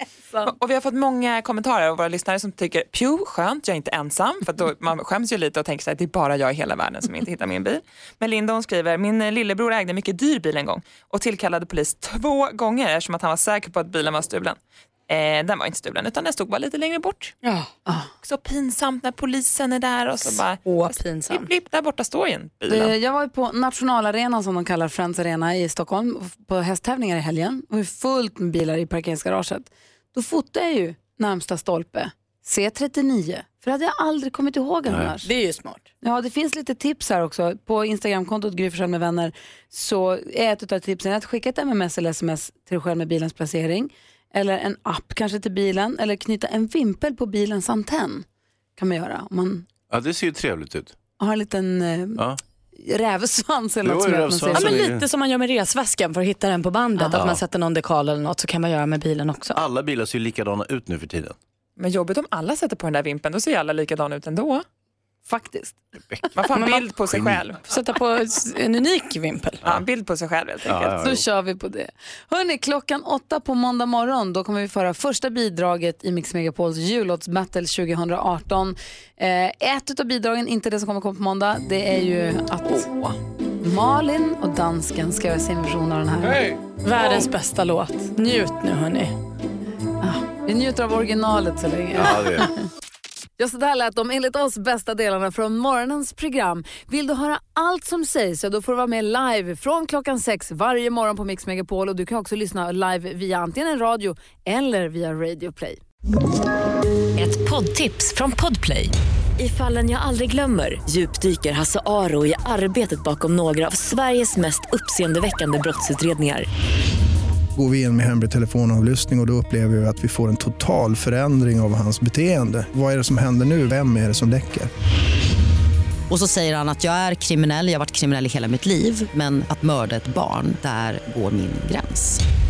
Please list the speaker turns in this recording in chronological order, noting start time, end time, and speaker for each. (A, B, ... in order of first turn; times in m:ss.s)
0:00.4-0:14.6 A
0:15.1-0:17.3 A
0:18.2-0:22.9 A
0:20.6-0:21.5 B
0:22.7-0:35.3 C
0:34.9-0:35.1 D
0:35.2-0:35.8 B
0:36.0-0:48.2 C
0:48.8-0:49.6 C
0:49.9-0:50.9 D
0:51.2-0:52.2 C
0:52.7-0:54.8 C
0:53.8-0:55.0 D
0:54.5-0:59.6 B
0:57.1-0:57.4 D
0:59.5-1:01.4 D
1:01.8-1:04.6 A
1:05.2-1:05.8 C
1:06.3-1:07.6 A
1:06.5-1:06.8 B
1:07.1-1:07.4 D
1:07.7-1:09.6 B
1:09.6-1:10.9 A
1:10.6-1:11.2 D
1:11.0-1:26.4 C
1:26.8-1:29.1 B
1:30.0-1:32.5 C
1:31.9-1:32.5 D
1:33.4-1:45.8 C
1:47.2-1:56.5 E
1:57.5-2:04.7 F
2:06.1-2:12.2 G